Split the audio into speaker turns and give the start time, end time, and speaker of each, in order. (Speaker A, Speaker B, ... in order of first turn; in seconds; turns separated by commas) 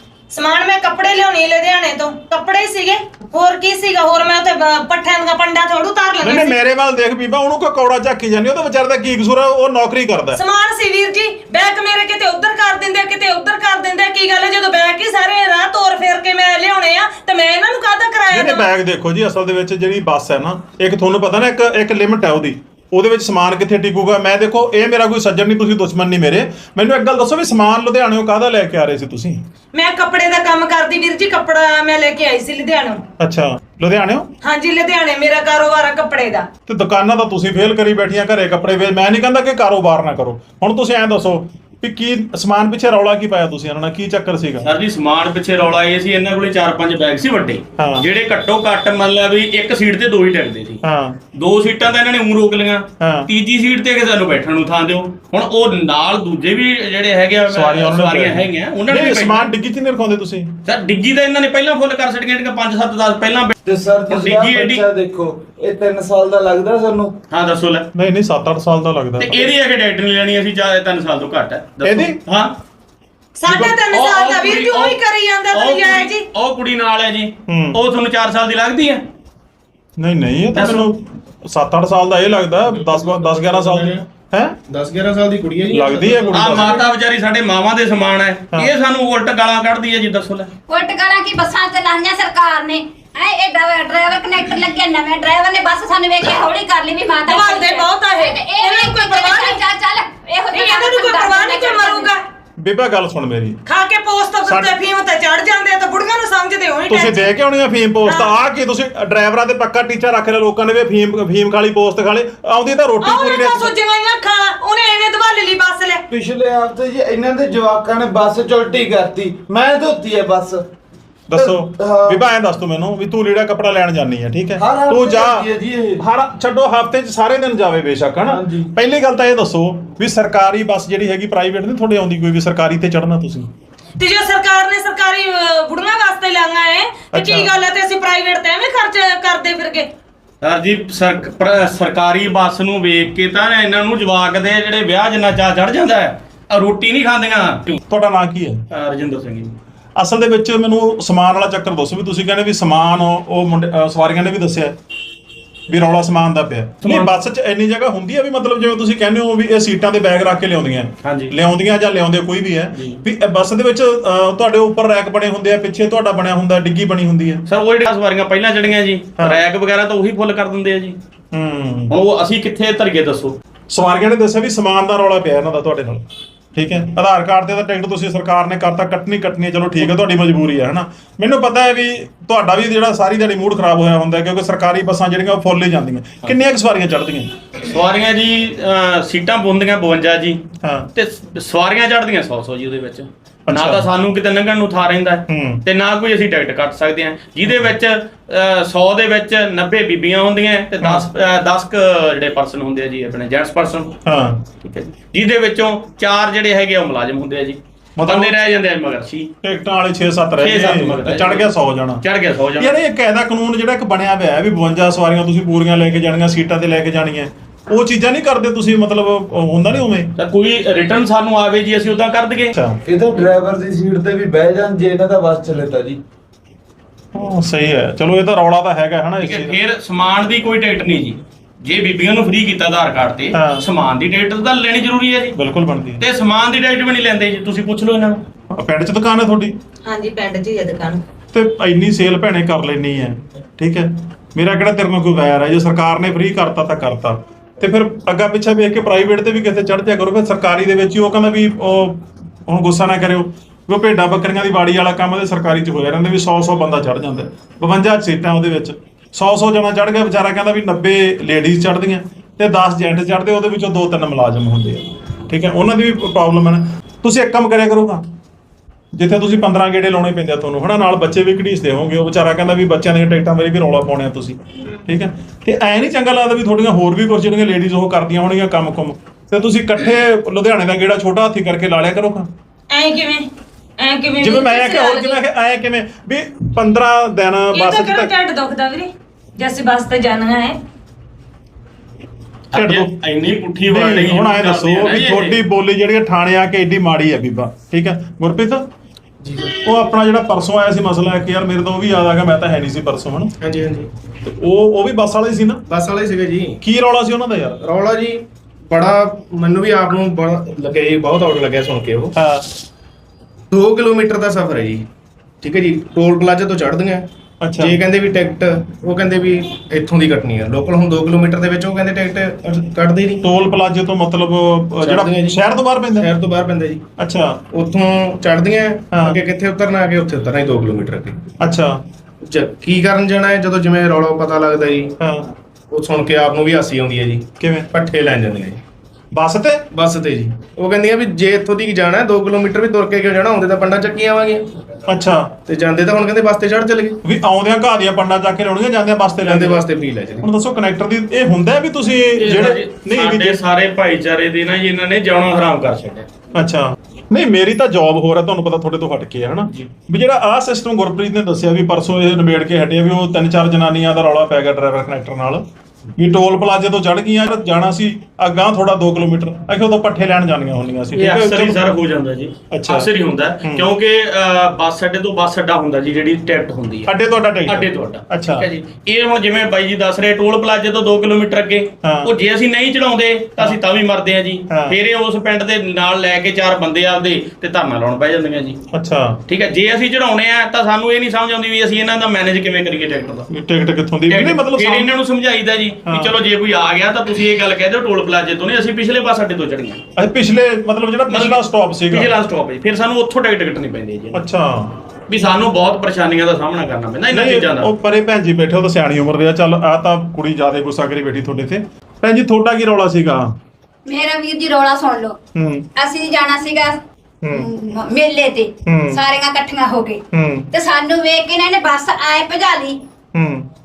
Speaker A: 0.3-6.5, Speaker B: 6.2-10.4, Speaker A: 10.3-18.6, Speaker B: 18.3-29.4, Speaker A: 29.7-33.0, Speaker B: 33.2-34.3, Speaker A: 34.4-36.5, Speaker B: 36.6-44.7, Speaker C: 44.6-50.8, Speaker B: 47.8-48.0, Speaker B: 50.8-51.2, Speaker C: 51.3-59.5, Speaker B: 53.0-53.3, Speaker B: 57.5-60.5, Speaker C: 60.6-63.5, Speaker D: 63.6-67.1, Speaker C: 64.1-64.8, Speaker C: 67.3-67.8, Speaker B: 67.9-69.5, Speaker C: 69.2-72.5, Speaker B: 71.8-72.2, Speaker A: 73.4-76.2, Speaker B: 73.5-73.8, Speaker C: 73.9-75.0, Speaker C: 75.5-79.0, Speaker B: 77.5-77.8, Speaker B: 80.0-84.6, Speaker C: 80.5-80.9, Speaker E: 82.8-84.0, Speaker E: 84.7-86.7, Speaker B: 85.7-86.8, Speaker C: 86.3-90.5, Speaker F: 90.7-102.1, Speaker A: 97.3-99.6, Speaker A: 100.5-102.2, Speaker B: 102.6-103.6, Speaker A: 103.7-107.3, Speaker B: 104.4-104.8, Speaker B: 106.9-113.7, Speaker A: 108.1-108.3, Speaker A: 113.0-116.0, Speaker D: 116.1-120.6, Speaker B: 121.3-125.5, Speaker D: 121.3-122.2, Speaker D: 124.6-126.0, Speaker B: 126.0-133.5, Speaker D: 128.2-128.7, Speaker A: 134.0-139.9, Speaker B: 137.1-137.5, Speaker C: 140.4-147.8, Speaker B: 147.9-148.6, Speaker C: 148.7-149.5, Speaker B: 150.0-154.8, Speaker B: 155.7-167.4, Speaker C: 156.8-157.1, Speaker C: 161.0-161.3, Speaker C: 167.5-171.0, Speaker B: 171.3-171.9, Speaker C: 171.9-173.3, Speaker B: 173.7-176.0, Speaker B: 176.5-187.3, Speaker C: 187.7-190.4, Speaker B: 190.6-190.9, Speaker C: 190.9-203.9, Speaker B: 193.5-193.9, Speaker B: 195.3-195.6, Speaker B: 204.0-204.4, Speaker C: 204.6-209.3, Speaker B: 207.9-208.4, Speaker B: 209.4-212.0, Speaker C: 210.4-211.5, Speaker C: 212.0-212.8, Speaker B: 212.6-220.1, Speaker C: 220.2-222.5, Speaker B: 222.5-222.8, Speaker D: 222.9-226.0, Speaker B: 227.1-229.6, Speaker C: 229.2-235.4, Speaker B: 233.3-233.7, Speaker B: 235.3-236.0, Speaker C: 236.0-238.2, Speaker B: 238.5-239.5, Speaker A: 239.8-241.0, Speaker B: 241.3-268.0, Speaker B: 268.9-282.3, Speaker A: 282.7-283.3, Speaker A: 283.8-285.2, Speaker B: 284.2-288.1, Speaker A: 287.5-290.6, Speaker C: 292.5-295.4, Speaker B: 292.5-292.9, Speaker B: 293.7-298.6, Speaker E: 299.2-299.5, Speaker B: 299.6-303.3, Speaker E: 303.4-303.9, Speaker B: 304.2-305.6, Speaker E: 305.7-306.6, Speaker B: 306.6-307.6, Speaker E: 307.6-312.1, Speaker B: 312.1-312.5, Speaker E: 313.5-314.8, Speaker E: 315.4-317.1, Speaker B: 317.4-317.8, Speaker E: 317.6-323.2, Speaker B: 323.2-326.1, Speaker E: 324.8-325.4, Speaker E: 326.0-326.8, Speaker B: 327.0-327.4, Speaker E: 327.5-331.2, Speaker B: 328.9-329.2, Speaker B: 331.4-331.8, Speaker E: 332.2-334.9, Speaker B: 335.0-335.3, Speaker E: 335.7-338.6, Speaker B: 337.4-337.7, Speaker B: 339.1-339.6, Speaker E: 339.7-344.4, Speaker B: 344.9-345.3, Speaker E: 345.5-347.0, Speaker B: 347.0-349.6, Speaker E: 349.2-350.2, Speaker B: 350.2-353.4, Speaker C: 352.2-356.1, Speaker B: 356.3-365.4, Speaker B: 366.0-371.6, Speaker C: 370.9-376.9, Speaker B: 372.5-372.9, Speaker B: 373.4-373.7, Speaker B: 376.9-378.5, Speaker C: 377.4-388.6, Speaker B: 381.8-382.1, Speaker B: 384.5-384.8, Speaker B: 388.7-389.2, Speaker C: 389.3-393.3, Speaker B: 393.3-394.9, Speaker C: 394.1-399.8, Speaker B: 395.9-396.1, Speaker B: 399.9-402.1, Speaker C: 401.1-404.2, Speaker B: 404.1-404.8, Speaker C: 405.1-407.7, Speaker B: 407.1-413.3, Speaker F: 413.9-415.2, Speaker B: 415.4-415.6, Speaker F: 415.8-416.8, Speaker F: 417.3-422.8, Speaker B: 418.6-419.0, Speaker B: 420.1-420.5, Speaker B: 423.1-423.4